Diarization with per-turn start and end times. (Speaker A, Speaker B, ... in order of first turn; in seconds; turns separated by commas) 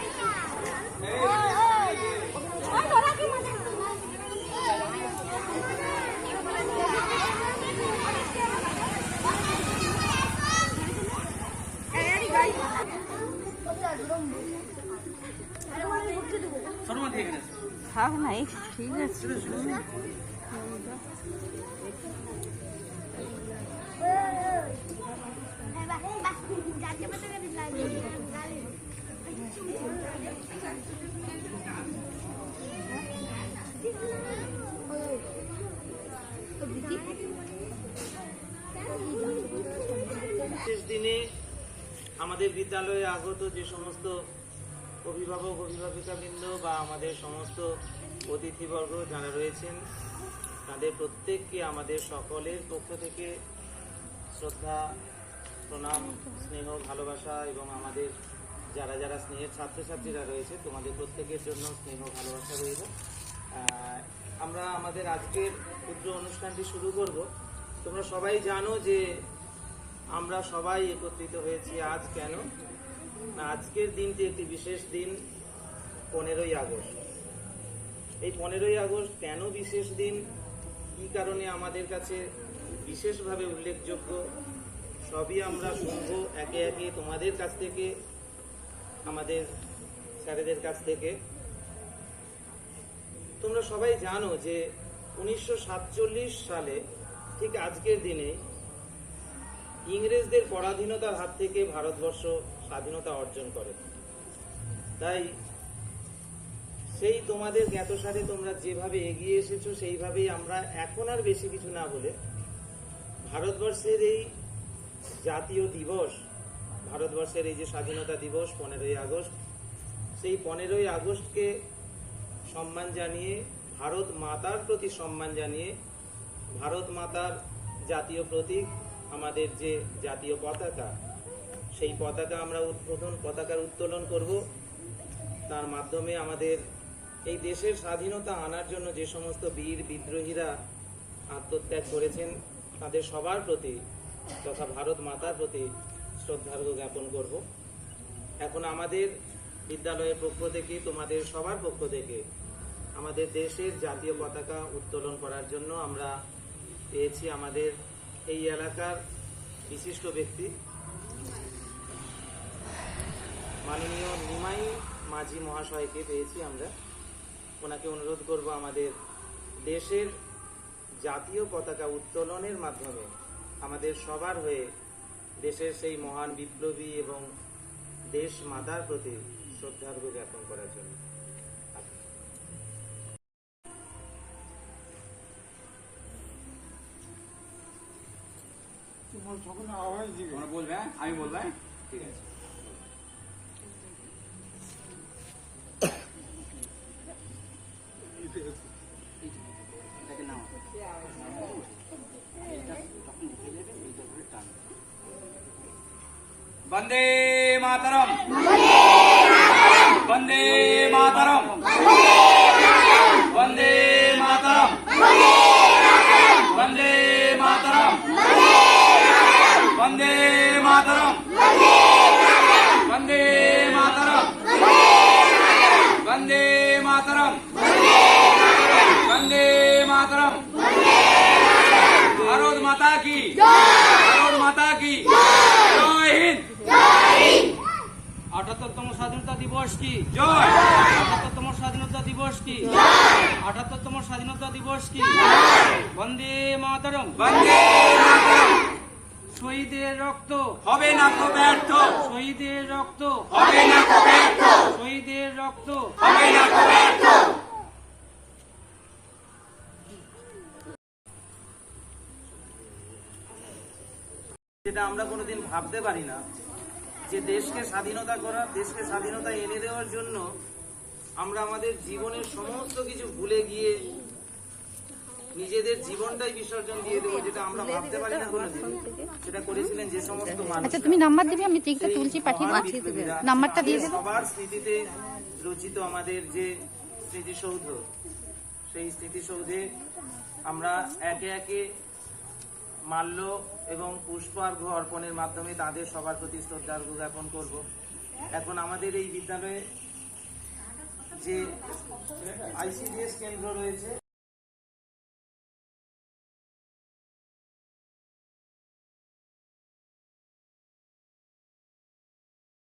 Speaker A: 16.8-17.6, Speaker B: 17.9-19.4, Speaker C: 19.2-19.8, Speaker B: 27.1-27.7, Speaker C: 40.5-41.2, Speaker C: 42.2-44.1, Speaker C: 45.1-47.7, Speaker C: 48.3-49.8, Speaker C: 50.7-53.3, Speaker C: 54.4-54.9, Speaker C: 55.7-58.1, Speaker C: 58.8-62.9, Speaker C: 63.6-67.2, Speaker C: 67.8-69.0, Speaker C: 70.2-72.4, Speaker C: 73.4-75.2, Speaker C: 76.1-77.0, Speaker C: 78.2-80.2, Speaker C: 81.0-82.2, Speaker C: 82.8-84.2, Speaker C: 85.1-87.9, Speaker C: 89.1-89.5, Speaker C: 90.2-91.2, Speaker C: 93.4-94.6, Speaker C: 95.2-96.8, Speaker C: 97.4-98.4, Speaker C: 99.9-103.8, Speaker C: 105.0-105.2, Speaker C: 107.0-112.1, Speaker C: 113.3-114.3, Speaker C: 115.2-116.2, Speaker C: 116.8-119.3, Speaker C: 120.2-121.5, Speaker C: 122.5-125.7, Speaker C: 126.6-127.3, Speaker C: 127.9-130.9, Speaker C: 131.8-134.4, Speaker C: 135.5-136.6, Speaker C: 137.3-140.5, Speaker C: 141.3-143.8, Speaker C: 144.4-145.7, Speaker C: 146.2-147.4, Speaker C: 148.4-149.1, Speaker C: 149.7-152.2, Speaker C: 153.0-156.1, Speaker C: 156.9-157.8, Speaker C: 158.3-159.0, Speaker C: 159.7-160.5, Speaker C: 163.7-166.7, Speaker C: 167.6-168.9, Speaker C: 169.7-170.1, Speaker C: 171.1-173.1, Speaker C: 173.6-174.7, Speaker C: 175.4-177.2, Speaker C: 178.2-181.0, Speaker D: 190.2-192.2, Speaker D: 206.7-208.2, Speaker D: 210.0-211.6, Speaker D: 213.3-214.8, Speaker D: 216.5-218.1, Speaker D: 219.7-221.3, Speaker D: 222.8-224.4, Speaker D: 226.0-227.5, Speaker D: 228.9-230.5, Speaker D: 232.1-236.5, Speaker A: 238.3-240.1, Speaker D: 240.1-240.7, Speaker A: 240.7-247.2, Speaker D: 247.2-248.6, Speaker A: 249.3-250.6, Speaker D: 250.6-252.0, Speaker A: 252.0-253.4, Speaker D: 253.3-254.2, Speaker A: 254.5-256.1, Speaker D: 256.1-256.8, Speaker C: 264.6-266.2, Speaker C: 267.1-270.2, Speaker C: 271.2-273.8, Speaker C: 275.4-281.1, Speaker B: 278.8-279.1, Speaker B: 280.7-284.0, Speaker C: 281.8-284.8, Speaker C: 285.4-286.5, Speaker C: 287.1-287.8, Speaker C: 288.7-289.6, Speaker C: 290.5-291.6, Speaker C: 292.9-297.6, Speaker C: 298.4-299.6, Speaker C: 301.1-301.5, Speaker C: 302.2-304.0